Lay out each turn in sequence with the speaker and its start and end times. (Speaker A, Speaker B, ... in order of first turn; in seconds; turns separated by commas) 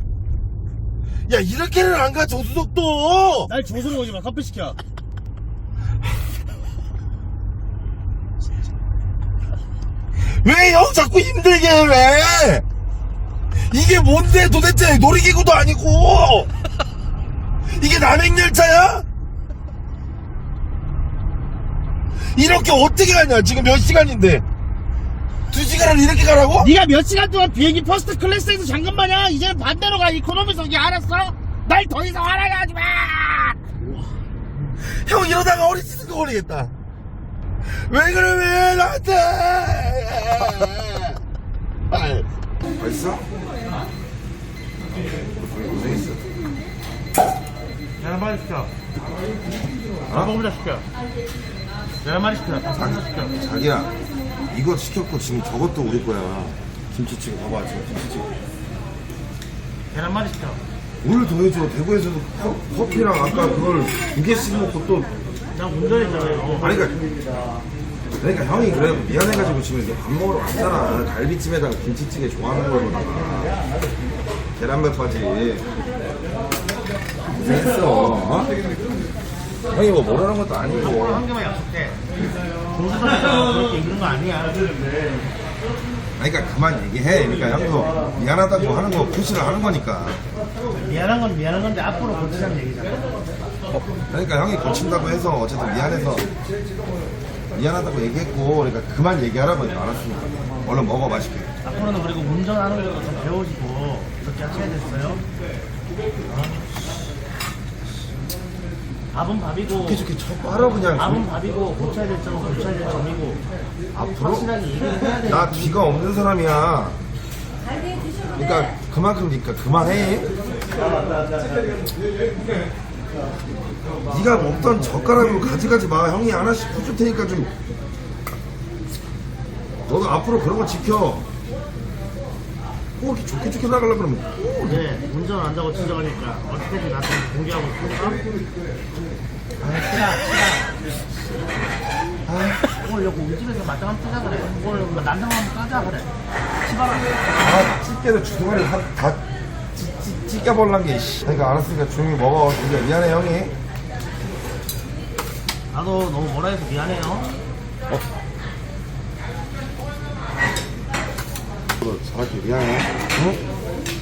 Speaker A: 1.3-3.5, Speaker B: 3.4-4.8, Speaker A: 10.2-12.6, Speaker A: 13.7-16.5, Speaker A: 17.6-19.0, Speaker A: 22.2-24.4, Speaker A: 25.5-26.7, Speaker B: 26.6-33.9, Speaker A: 34.8-36.7, Speaker A: 37.6-41.2, Speaker A: 41.9-42.3, Speaker A: 42.8-43.2, Speaker A: 45.5-46.2, Speaker B: 48.0-48.7, Speaker A: 50.1-50.4, Speaker B: 50.1-50.9, Speaker B: 52.0-53.4, Speaker A: 52.7-53.9, Speaker A: 54.5-58.3, Speaker B: 59.9-60.6, Speaker A: 61.0-65.1, Speaker B: 65.5-66.8, Speaker A: 66.6-67.0, Speaker A: 68.2-73.5, Speaker A: 74.6-75.6, Speaker A: 77.3-78.5, Speaker A: 79.7-81.2, Speaker B: 80.7-82.0, Speaker B: 82.7-84.7, Speaker A: 86.2-90.2, Speaker B: 90.7-93.2, Speaker A: 93.9-96.3, Speaker A: 97.5-101.5, Speaker B: 101.6-105.2, Speaker A: 106.3-106.6, Speaker B: 109.1-110.1, Speaker A: 109.7-111.2, Speaker B: 110.9-113.4, Speaker A: 113.9-114.5, Speaker B: 114.1-115.8, Speaker A: 115.2-117.0, Speaker A: 118.3-120.3, Speaker A: 124.1-127.5, Speaker A: 129.9-131.2, Speaker A: 133.0-134.8, Speaker B: 134.6-138.2, Speaker A: 139.6-140.2, Speaker B: 139.7-140.7, Speaker A: 142.3-142.7, Speaker B: 142.8-146.1, Speaker B: 146.6-147.2, Speaker A: 147.3-149.2, Speaker A: 149.7-153.5, Speaker B: 155.7-157.3, Speaker A: 161.8-163.4